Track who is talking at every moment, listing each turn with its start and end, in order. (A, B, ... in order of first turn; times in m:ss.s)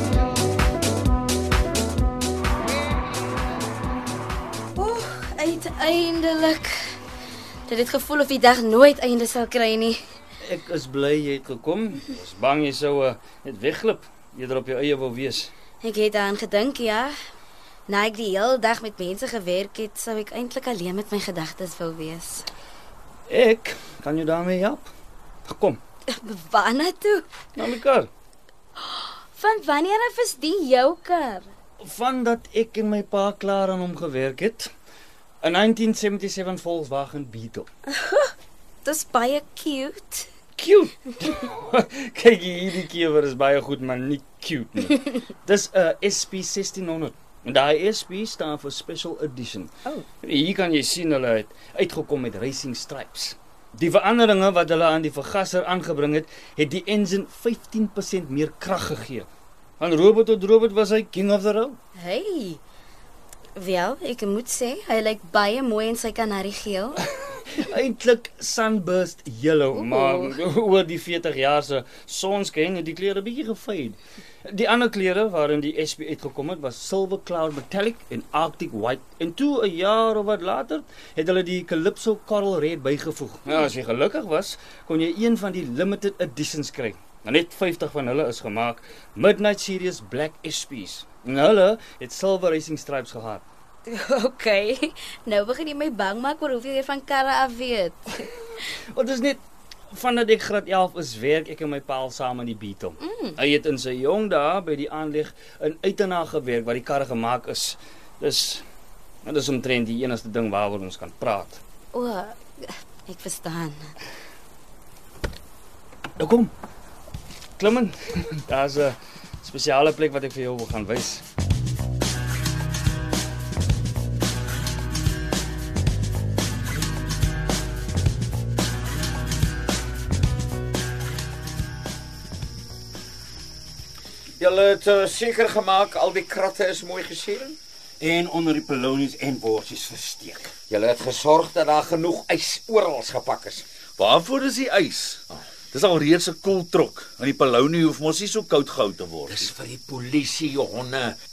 0:04.8-0:07.0 A
0:07.7-0:10.0 A
0:10.4-0:15.5 B
0:15.8-0:17.2 A
0:17.9-0:22.5 A
0:23.3-0:24.9 B
0:25.5-0:25.8 B
0:26.2-0:27.3 A
0:27.6-0:28.1 B
0:28.8-0:31.5 A
0:31.8-0:34.7 B
0:35.4-0:37.7 B
0:38.0-0:38.3 A
0:38.8-0:40.3 A
0:40.6-0:59.3 B
0:59.8-1:01.8 B
1:02.0-1:02.6 A
1:03.6-1:07.0 A
1:07.5-1:33.4 B
1:09.8-1:10.4 A
1:33.9-1:38.3 A
1:38.9-1:48.6 B
1:43.0-1:43.4 A
1:49.2-1:51.6 B
1:51.9-1:53.9 A
1:56.2-1:56.5 B
1:57.6-2:01.2 B
2:14.4-2:17.6 C
2:18.0-2:20.6 D
2:20.7-2:23.6 C
2:24.0-2:29.5 E
2:29.3-2:31.2 C